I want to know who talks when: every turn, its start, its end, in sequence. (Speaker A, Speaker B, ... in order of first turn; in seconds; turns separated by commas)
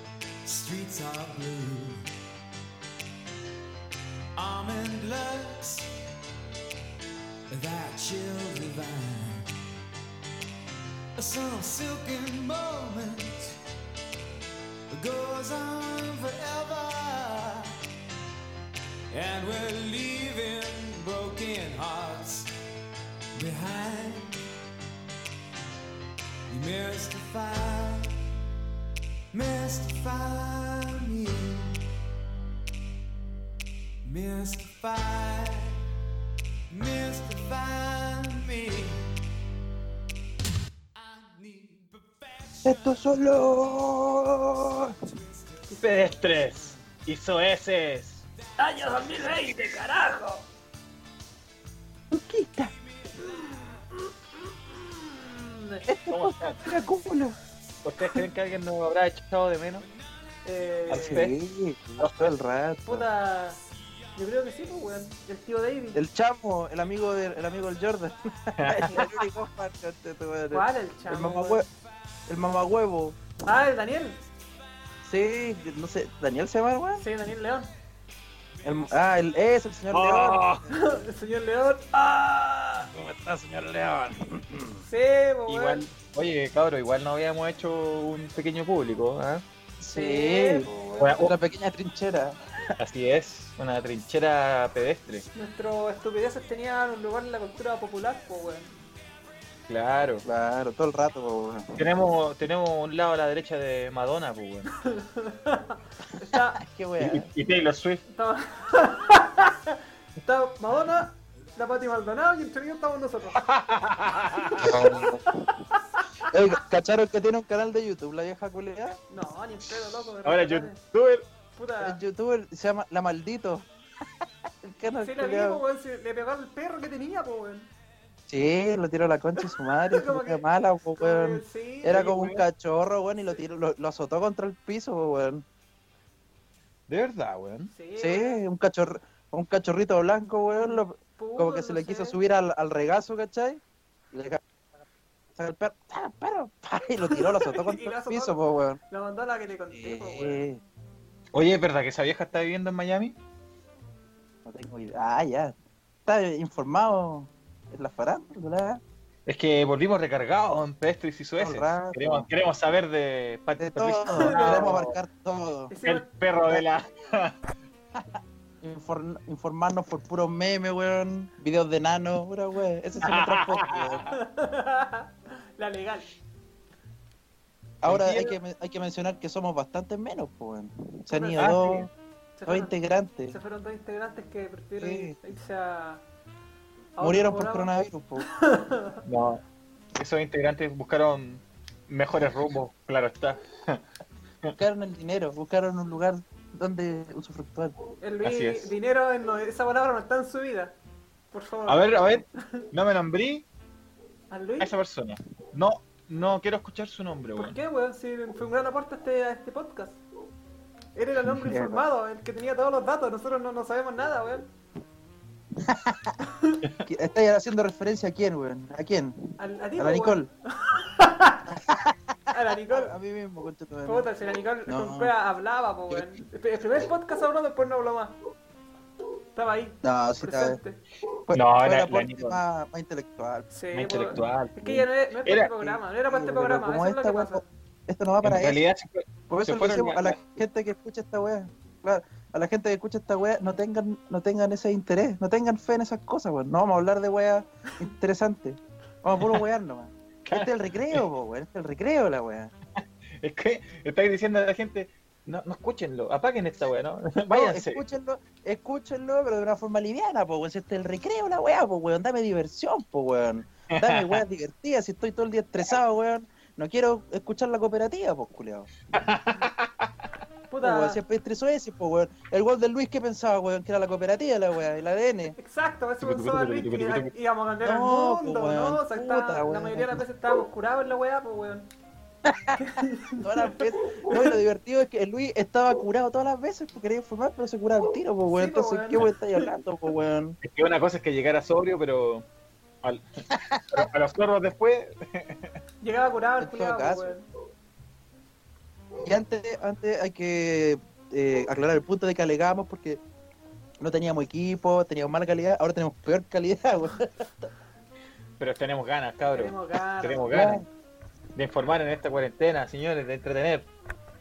Speaker A: 0.5-2.1, Speaker A: 4.3-5.9, Speaker A: 7.5-9.5, Speaker A: 11.2-13.6, Speaker A: 14.9-17.8, Speaker A: 19.1-22.5, Speaker A: 23.3-24.4, Speaker A: 26.5-28.1, Speaker A: 29.3-31.8, Speaker A: 34.0-35.8, Speaker A: 36.7-39.1, Speaker A: 40.9-43.7, Speaker B: 42.6-44.9, Speaker A: 44.6-46.9, Speaker C: 45.8-48.2, Speaker D: 48.6-50.5, Speaker A: 48.8-49.3, Speaker B: 52.1-52.7, Speaker A: 52.9-53.8, Speaker D: 53.2-54.1, Speaker D: 54.7-55.8, Speaker B: 55.8-57.4, Speaker C: 56.1-56.6, Speaker C: 57.8-59.9, Speaker D: 60.4-61.2, Speaker C: 60.9-61.3, Speaker B: 60.9-63.1, Speaker C: 62.0-62.3, Speaker D: 62.8-63.6, Speaker D: 64.1-66.0, Speaker A: 64.2-64.6, Speaker B: 65.9-71.7, Speaker C: 68.6-69.1, Speaker D: 70.5-71.6, Speaker B: 72.3-73.2, Speaker D: 73.4-74.2, Speaker B: 75.0-77.0, Speaker D: 77.0-77.7, Speaker B: 78.6-80.5, Speaker C: 79.9-80.6, Speaker D: 80.7-82.9, Speaker B: 82.9-84.8, Speaker D: 84.8-85.8, Speaker C: 85.5-89.4, Speaker B: 89.8-92.4, Speaker D: 89.9-90.7, Speaker C: 91.0-91.4, Speaker C: 92.8-95.2, Speaker D: 95.3-98.7, Speaker C: 99.7-100.2, Speaker B: 100.2-101.8, Speaker C: 101.8-104.7, Speaker D: 104.7-106.6, Speaker B: 106.6-107.3, Speaker C: 107.0-108.0, Speaker D: 108.1-113.4, Speaker C: 113.4-114.9, Speaker B: 114.6-115.2, Speaker D: 115.3-116.2, Speaker B: 116.3-119.0, Speaker D: 119.1-120.8, Speaker C: 120.2-121.2, Speaker D: 121.5-122.0, Speaker B: 121.8-123.7, Speaker B: 124.6-125.6, Speaker D: 125.0-127.7, Speaker B: 128.3-135.4, Speaker D: 129.4-130.4, Speaker D: 131.0-132.4, Speaker C: 132.0-132.2, Speaker C: 136.9-137.7, Speaker D: 137.7-138.4, Speaker B: 138.0-144.4, Speaker D: 140.6-142.2, Speaker B: 145.3-148.8, Speaker D: 147.1-148.4, Speaker D: 148.9-150.4, Speaker B: 149.7-150.6, Speaker C: 151.3-153.2, Speaker B: 154.4-155.5, Speaker B: 156.1-158.8, Speaker C: 159.2-164.9, Speaker B: 161.4-162.3, Speaker B: 163.6-165.7, Speaker D: 164.1-164.8, Speaker D: 165.7-166.1, Speaker C: 165.8-167.3, Speaker B: 168.6-174.0, Speaker C: 173.0-174.1, Speaker D: 174.1-176.1, Speaker B: 177.8-181.9, Speaker C: 177.8-178.3, Speaker D: 181.1-181.6, Speaker C: 181.4-181.9, Speaker D: 182.4-182.7, Speaker B: 182.5-183.4, Speaker D: 183.3-186.0, Speaker B: 184.8-185.2, Speaker D: 187.0-189.0, Speaker B: 187.0-188.2, Speaker C: 189.1-189.4, Speaker C: 190.0-193.8, Speaker B: 194.6-197.7, Speaker D: 198.0-200.8, Speaker C: 198.2-198.7, Speaker D: 201.3-202.7, Speaker C: 201.7-203.5, Speaker D: 204.3-204.7, Speaker C: 204.6-207.6, Speaker D: 207.3-210.0, Speaker D: 211.0-214.5, Speaker B: 211.2-211.8, Speaker B: 215.6-216.2, Speaker D: 216.2-216.6, Speaker B: 216.8-220.3, Speaker D: 219.4-221.5, Speaker B: 221.5-224.1, Speaker D: 222.3-222.9, Speaker D: 223.8-228.2, Speaker B: 224.7-225.1, Speaker D: 229.3-230.8, Speaker B: 229.8-230.6, Speaker B: 231.3-233.5, Speaker C: 231.3-232.4, Speaker D: 233.5-237.5, Speaker C: 233.7-235.7, Speaker B: 236.1-238.6, Speaker C: 238.2-240.2, Speaker B: 239.3-252.5, Speaker C: 249.2-249.4, Speaker C: 250.2-251.0, Speaker C: 253.2-257.8, Speaker B: 257.3-268.7, Speaker C: 263.7-264.2, Speaker C: 268.9-269.9, Speaker D: 270.5-271.0, Speaker B: 270.6-275.4, Speaker D: 275.4-281.7, Speaker C: 276.0-277.1, Speaker B: 277.6-280.0, Speaker B: 282.2-282.6, Speaker D: 282.6-284.4, Speaker B: 283.2-290.4, Speaker D: 288.3-289.5, Speaker C: 290.4-292.2, Speaker B: 293.5-293.9, Speaker C: 293.6-295.5, Speaker D: 295.8-297.3, Speaker B: 296.4-297.1, Speaker B: 299.0-303.0, Speaker B: 303.8-307.5, Speaker C: 308.4-310.6, Speaker D: 309.3-310.4, Speaker B: 310.3-310.6, Speaker C: 311.4-313.7